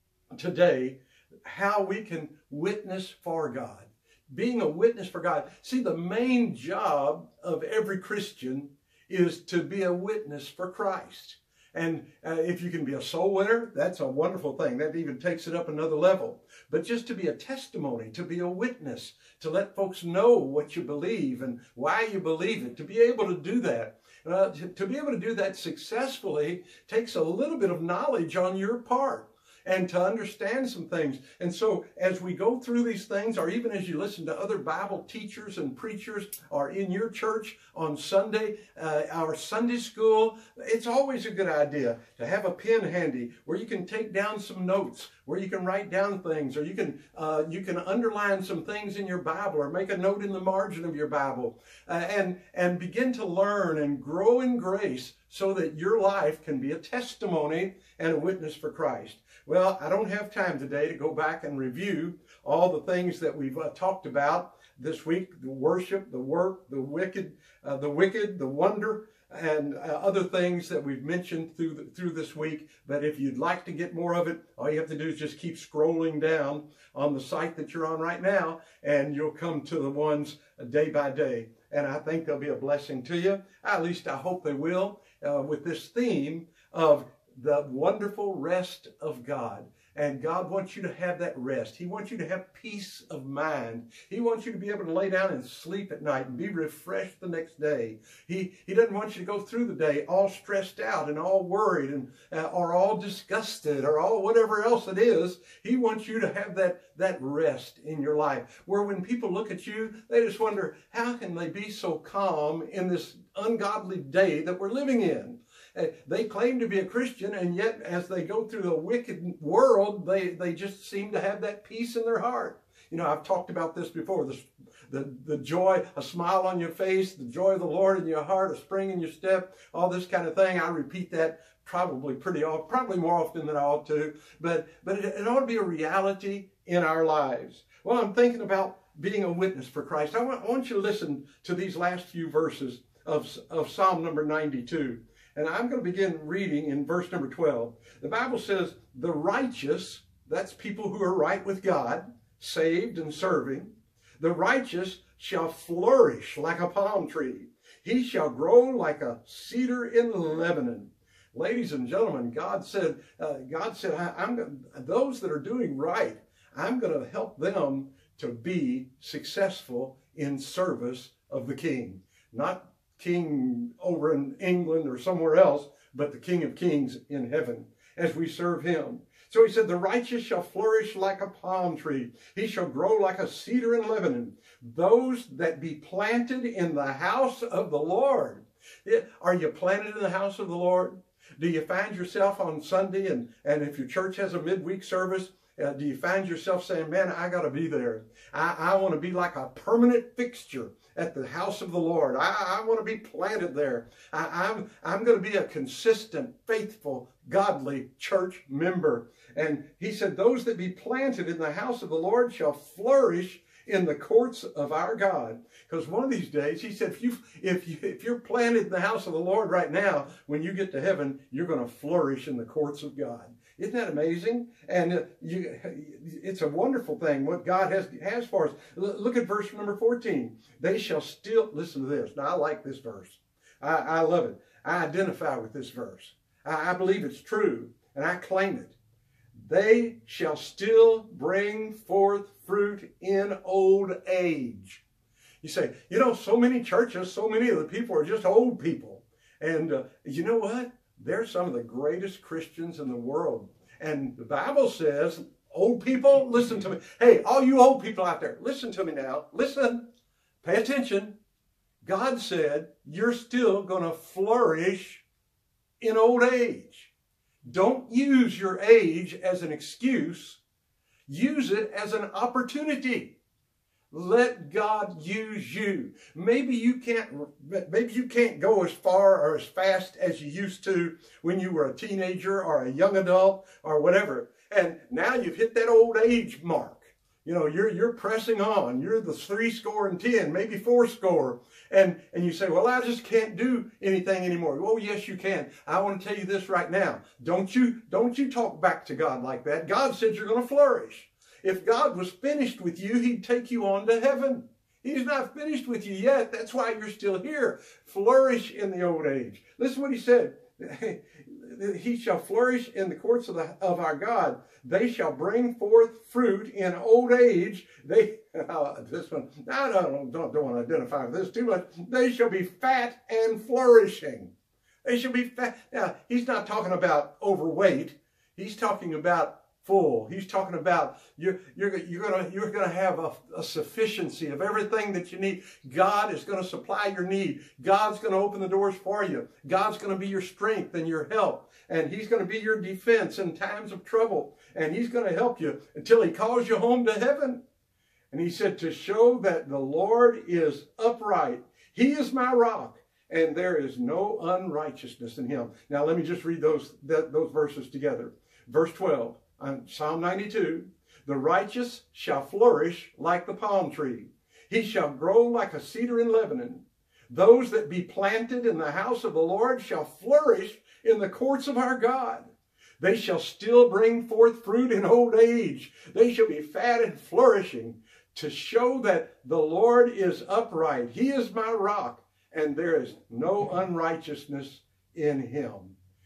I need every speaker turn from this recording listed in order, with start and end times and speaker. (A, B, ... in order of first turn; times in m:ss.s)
0:00.3-3:58.8 A
3:59.4-4:04.8 A
4:05.4-4:19.8 A
4:20.4-4:21.2 A
4:21.8-4:25.0 A
4:25.8-4:26.9 A
4:27.5-4:30.4 A
4:31.1-4:33.2 A
4:33.9-5:24.3 A
5:24.8-5:47.4 A
5:48.1-6:25.8 A